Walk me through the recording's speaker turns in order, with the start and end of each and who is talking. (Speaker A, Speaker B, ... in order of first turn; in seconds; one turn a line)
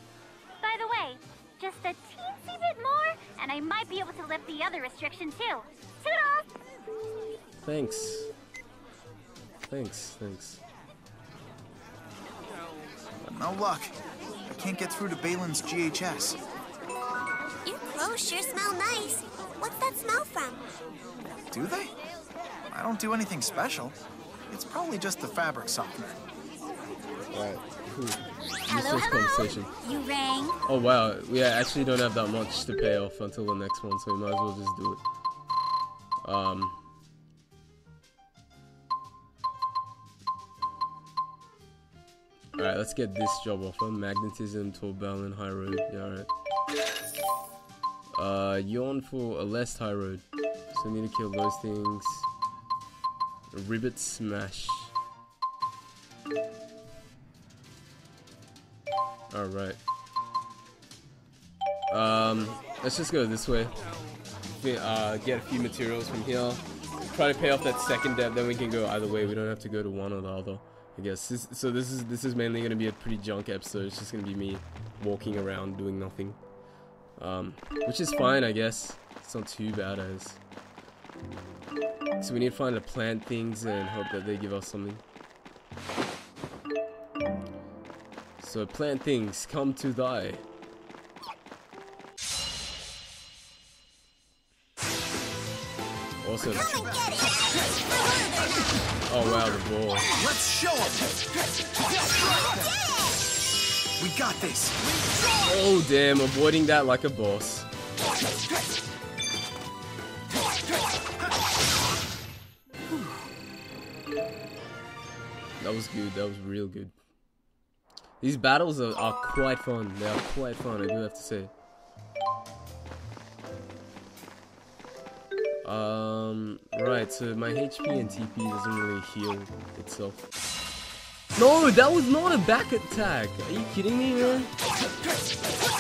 Speaker A: 0.6-6.5
Speaker B: 7.6-8.3
Speaker B: 9.7-10.6
Speaker C: 13.2-13.9
Speaker C: 14.5-16.4
Speaker D: 17.6-20.7
Speaker C: 21.5-21.9
Speaker C: 22.7-24.0
Speaker C: 24.5-26.2
Speaker B: 27.3-29.7
Speaker A: 28.7-30.6
Speaker B: 30.7-35.0
Speaker B: 36.2-36.8
Speaker B: 42.6-46.3
Speaker B: 48.1-52.3
Speaker B: 53.5-54.9
Speaker B: 59.3-59.8
Speaker B: 61.9-63.7
Speaker B: 64.5-76.4
Speaker B: 77.2-80.4
Speaker B: 82.2-85.0
Speaker B: 88.4-90.4
Speaker B: 96.2-96.7
Speaker D: 96.4-98.8
Speaker B: 99.1-100.1
Speaker C: 100.1-101.1
Speaker D: 102.2-103.3
Speaker C: 104.0-105.2
Speaker B: 105.4-107.7
Speaker B: 115.6-116.9
Speaker B: 118.2-121.5
Speaker B: 125.6-130.2
Speaker B: 131.4-134.5